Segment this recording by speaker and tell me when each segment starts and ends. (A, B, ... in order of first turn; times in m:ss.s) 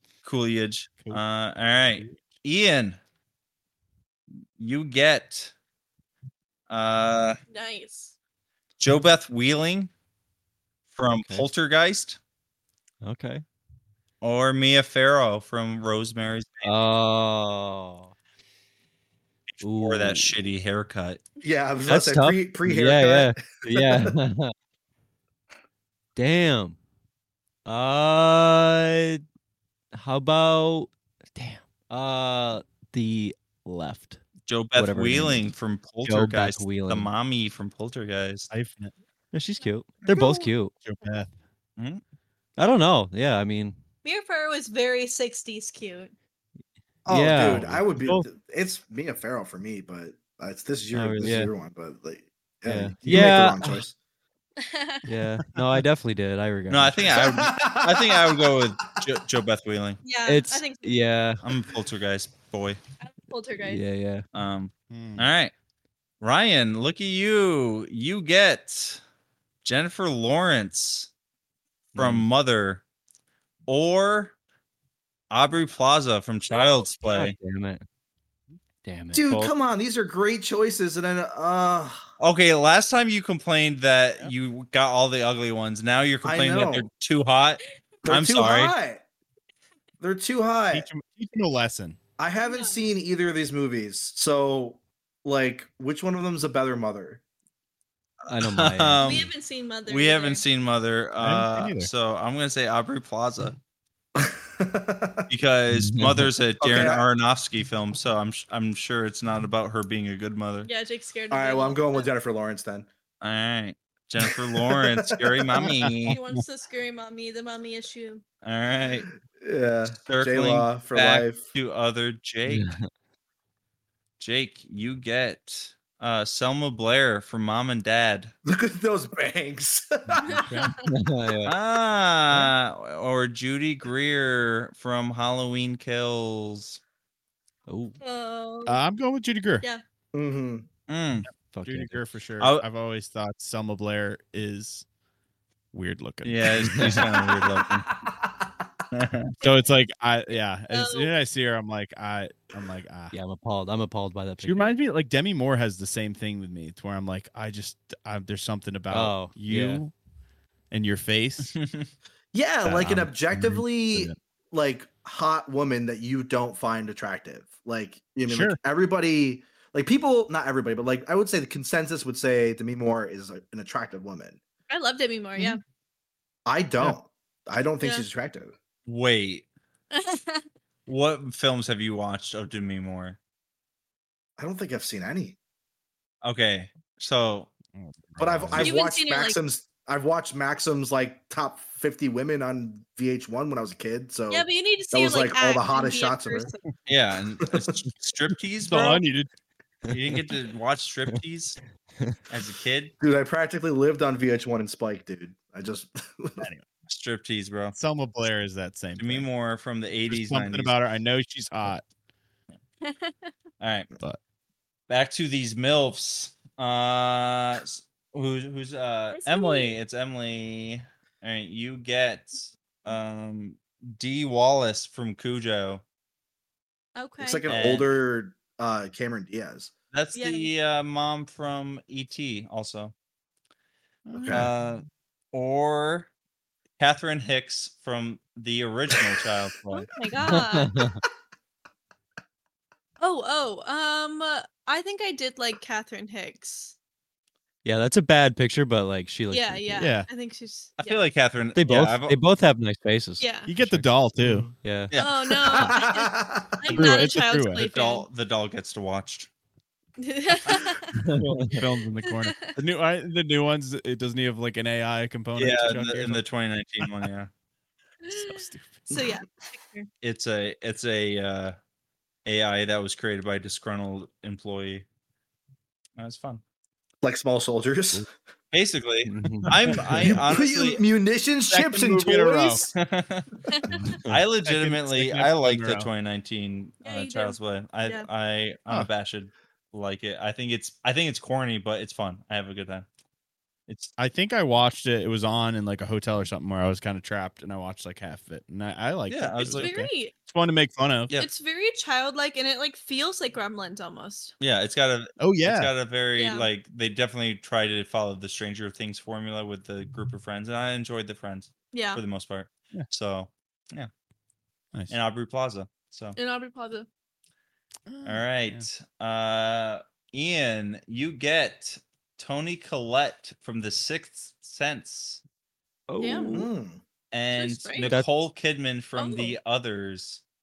0:00.2-0:03.0 A
0:01.9-0:02.2 B
0:04.6-0:05.5 A
0:06.7-0:07.4 A
0:07.5-0:08.1 C
0:08.8-0:09.9 A
0:10.9-0:12.2 A
0:11.2-0:11.5 D
0:13.0-0:13.4 D
0:14.2-0:16.8 A
0:16.6-0:18.1 D
0:19.5-0:21.2 A
0:19.6-0:20.3 D
0:21.4-0:24.1 E
0:21.9-0:24.5 D
0:26.2-0:26.8 D
0:27.6-0:29.2 D
0:29.9-0:34.2 D
0:34.4-0:38.5 A
0:34.8-0:37.1 D
0:38.5-0:38.9 B
0:39.3-0:40.8 D
0:40.8-0:41.3 B
0:41.8-0:42.0 A
0:42.6-0:43.8 D
0:44.0-0:46.1 C
0:47.0-0:53.9 E
0:47.1-0:48.3 D
0:50.9-0:51.5 D
0:52.6-0:53.8 D
0:53.0-0:53.4 B
0:54.6-0:55.0 C
0:55.1-0:57.4 D
0:55.5-0:55.8 B
0:56.7-1:00.0 A
0:57.1-0:58.6 E
1:00.0-1:01.0 C
1:00.2-1:01.4 D
1:01.4-1:02.8 A
1:03.0-1:03.8 C
1:03.6-1:04.2 D
1:04.3-1:05.5 A
1:04.9-1:05.3 B
1:06.2-1:09.0 A
1:09.6-1:11.1 A
1:11.9-1:12.8 A
1:12.0-1:12.3 D
1:13.7-1:14.3 A
1:15.3-1:17.3 A
1:17.1-1:17.8 D
1:18.8-1:19.5 D
1:19.1-1:22.0 E
1:22.2-1:28.7 A
1:26.2-1:26.9 E
1:28.0-1:29.0 E
1:30.0-1:30.9 E
1:30.7-1:32.0 B
1:32.2-1:37.2 E
1:32.4-1:32.8 C
1:38.2-1:39.3 A
1:38.3-1:39.3 D
1:39.0-1:40.4 C
1:39.9-1:43.6 A
1:41.2-1:41.9 B
1:44.2-1:45.3 E
1:45.3-1:50.7 A
1:45.7-1:46.3 D
1:46.6-1:47.0 E
1:50.6-1:52.1 C
1:51.3-1:52.9 E
1:53.2-1:56.2 A
1:54.2-1:55.4 E
1:55.6-1:56.1 B
1:56.1-1:58.2 C
1:58.4-1:59.1 A
1:59.3-2:01.4 E
2:00.0-2:02.7 A
2:02.5-2:02.9 D
2:04.2-2:08.3 A
2:08.4-2:10.4 E
2:10.2-2:10.8 C
2:10.4-2:10.7 B
2:10.9-2:11.5 D
2:11.4-2:16.8 A
2:17.7-2:18.0 D
2:18.0-2:18.8 C
2:18.6-2:19.6 B
2:20.1-2:20.6 E
2:20.9-2:21.3 A
2:21.5-2:22.0 D
2:21.6-2:24.8 B
2:22.4-2:22.6 A
2:25.7-2:27.1 B
2:26.2-2:27.8 A
2:28.0-2:28.6 E
2:28.9-2:29.3 A
2:29.4-2:33.1 B
2:30.7-2:31.1 C
2:33.1-2:34.7 D
2:34.4-2:39.9 B
2:38.9-2:39.8 D
2:40.7-2:41.5 B
2:41.4-2:41.9 A
2:42.3-2:54.4 E
2:42.6-2:44.2 B
2:48.3-2:48.6 B
2:54.7-2:55.6 C
2:56.4-2:58.5 E
2:58.8-2:59.4 A
2:59.9-3:00.4 C
3:00.9-3:03.2 A
3:04.4-3:05.4 E
3:06.2-3:07.5 A
3:07.7-3:08.7 B
3:08.2-3:16.5 E
3:08.6-3:09.4 C
3:14.3-3:16.6 C
3:16.9-3:19.0 A
3:18.7-3:19.3 B
3:19.9-3:21.6 A
3:22.3-3:22.9 A
3:23.0-3:26.4 E
3:26.4-3:27.7 A
3:27.7-3:29.3 B
3:29.0-3:30.8 A
3:30.1-3:31.8 B
3:32.8-3:33.3 C
3:33.6-3:33.9 A
3:34.9-3:45.8 A
3:39.1-3:39.7 C
3:47.0-3:47.4 C
3:47.2-3:49.7 E
3:47.5-3:47.9 A
3:49.9-3:52.9 A
3:50.1-3:50.5 C
3:54.0-3:54.5 B
3:54.2-3:54.5 E
3:54.3-3:56.1 A
3:56.8-3:59.9 A
3:59.7-4:00.7 C
4:00.2-4:01.0 D
4:03.0-4:06.7 C
4:07.6-4:09.9 D
4:09.3-4:11.0 C
4:09.8-4:10.1 B
4:10.8-4:12.2 A
4:11.5-4:14.9 D
4:13.2-4:13.5 C
4:13.4-4:14.6 B
4:15.0-4:18.1 C
4:15.5-4:16.7 E
4:16.7-4:17.6 B
4:17.5-4:19.3 A
4:20.0-4:20.9 C
4:21.0-4:21.6 D
4:21.0-4:26.2 B
4:22.0-4:22.6 C
4:25.4-4:27.3 A
4:26.8-4:27.1 B
4:28.0-4:29.9 C
4:28.1-4:28.9 B
4:30.0-4:31.6 A
4:32.2-4:34.8 A
4:36.0-4:36.4 A
4:37.0-4:38.1 E
4:38.5-4:40.8 A
4:39.1-4:39.5 D
4:40.0-4:42.7 E
4:41.5-4:42.6 B
4:42.7-4:43.3 A
4:43.7-4:45.9 B
4:44.1-4:52.8 A
4:46.8-4:48.1 C
4:53.7-4:53.9 A
4:54.0-5:01.1 B
4:59.1-4:59.7 A
4:59.6-5:00.1 C
5:01.2-5:04.3 C
5:04.4-5:13.9 A
5:05.2-5:05.7 B
5:06.1-5:06.5 C
5:11.7-5:12.0 C
5:14.9-5:16.2 A
5:16.2-5:16.9 C
5:17.9-5:18.6 B
5:18.0-5:25.2 A
5:25.9-5:26.5 D
5:26.0-5:26.4 C
5:26.3-5:26.8 E
5:27.1-5:30.2 A
5:27.3-5:27.9 C
5:29.0-5:29.4 C